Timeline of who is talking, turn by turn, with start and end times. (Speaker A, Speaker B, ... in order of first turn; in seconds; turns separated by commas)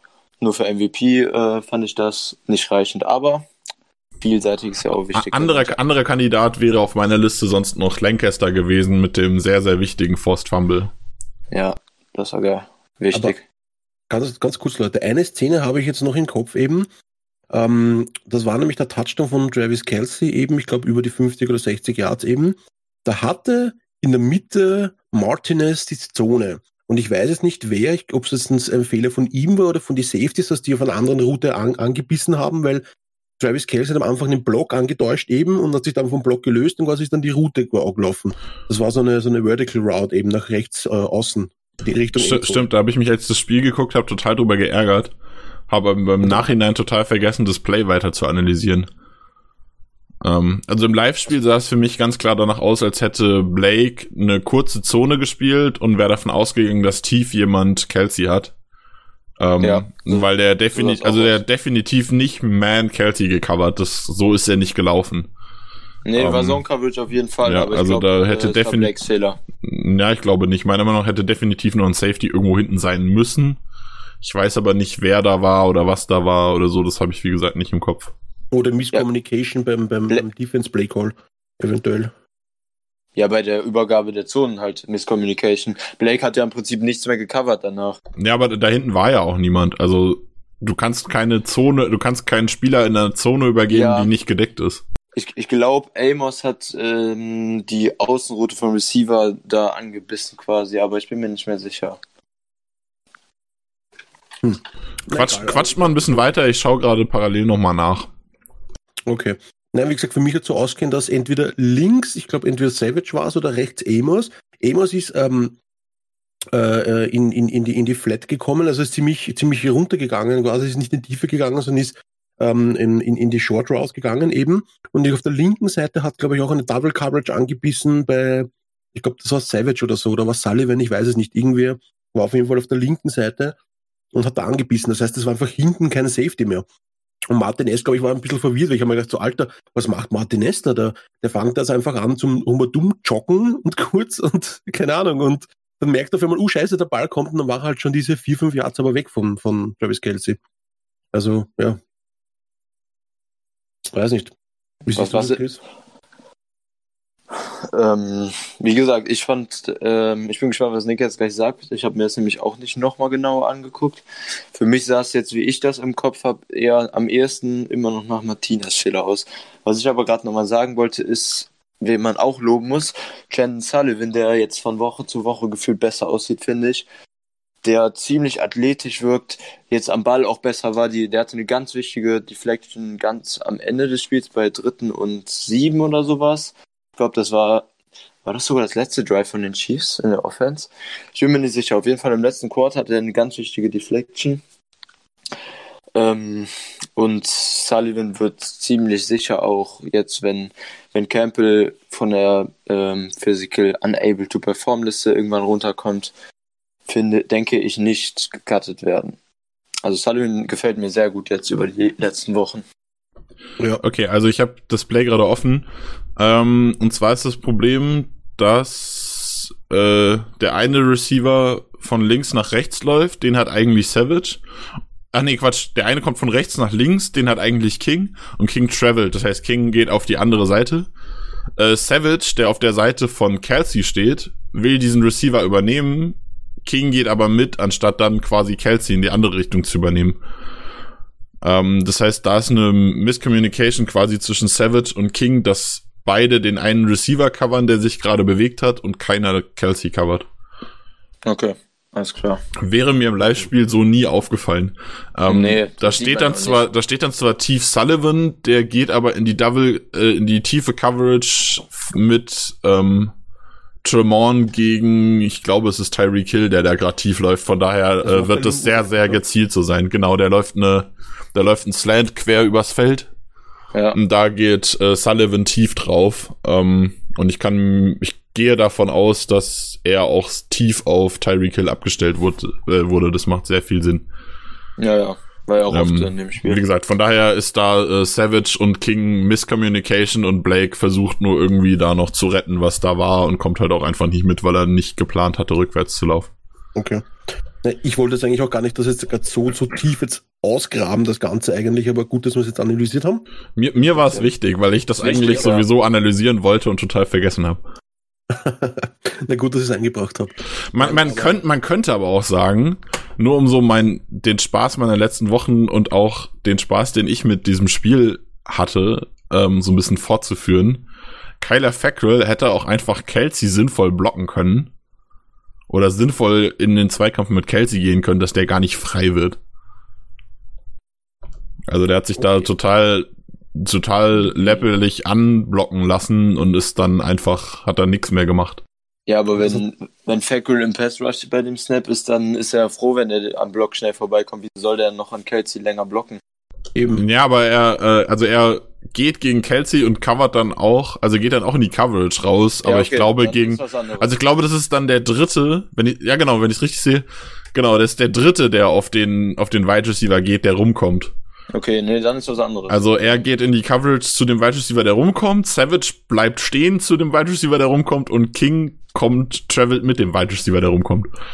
Speaker A: 0.4-3.5, Speaker A: 4.2-5.8, Speaker B: 5.2-10.9, Speaker A: 11.5-13.4, Speaker C: 14.1-16.9, Speaker C: 17.5-32.8, Speaker C: 33.4-42.7, Speaker B: 42.1-45.1, Speaker B: 45.7-48.9, Speaker B: 50.2-58.5, Speaker B: 59.4-65.3, Speaker A: 59.6-61.4, Speaker A: 66.0-69.4, Speaker B: 66.2-66.6, Speaker B: 67.4-69.0, Speaker B: 69.6-73.6, Speaker B: 74.2-78.1, Speaker C: 78.5-82.1, Speaker A: 83.2-88.0, Speaker B: 88.2-94.8, Speaker A: 93.7-94.1, Speaker A: 95.2-102.0, Speaker C: 104.4-106.2, Speaker B: 105.1-108.1, Speaker C: 109.1-115.6, Speaker C: 116.5-133.6, Speaker C: 134.1-136.7, Speaker C: 137.3-150.4, Speaker C: 151.1-151.8, Speaker C: 153.9-154.3, Speaker C: 154.9-155.6, Speaker A: 154.9-155.4, Speaker A: 157.4-164.0, Speaker A: 164.6-176.8, Speaker A: 177.6-187.7, Speaker A: 188.2-194.4, Speaker A: 195.9-206.1, Speaker A: 206.9-209.2, Speaker A: 209.8-212.6, Speaker B: 213.8-215.7, Speaker B: 216.2-224.4, Speaker B: 225.1-230.9, Speaker B: 231.6-240.2, Speaker B: 241.4-250.3, Speaker A: 251.2-252.4, Speaker B: 252.6-263.1, Speaker A: 255.3-256.7, Speaker B: 263.8-273.1, Speaker C: 268.0-269.2, Speaker B: 273.9-284.1, Speaker A: 284.8-286.6, Speaker B: 285.7-296.3, Speaker C: 296.8-297.1, Speaker C: 297.6-303.2, Speaker B: 303.6-307.6, Speaker C: 305.0-305.6, Speaker C: 308.3-311.4, Speaker B: 310.7-320.8, Speaker B: 321.4-324.7, Speaker B: 325.7-329.4, Speaker B: 331.7-338.6, Speaker A: 339.1-346.2, Speaker C: 346.7-347.0, Speaker B: 346.9-361.1, Speaker A: 352.6-354.1, Speaker A: 361.5-363.2, Speaker B: 362.7-371.1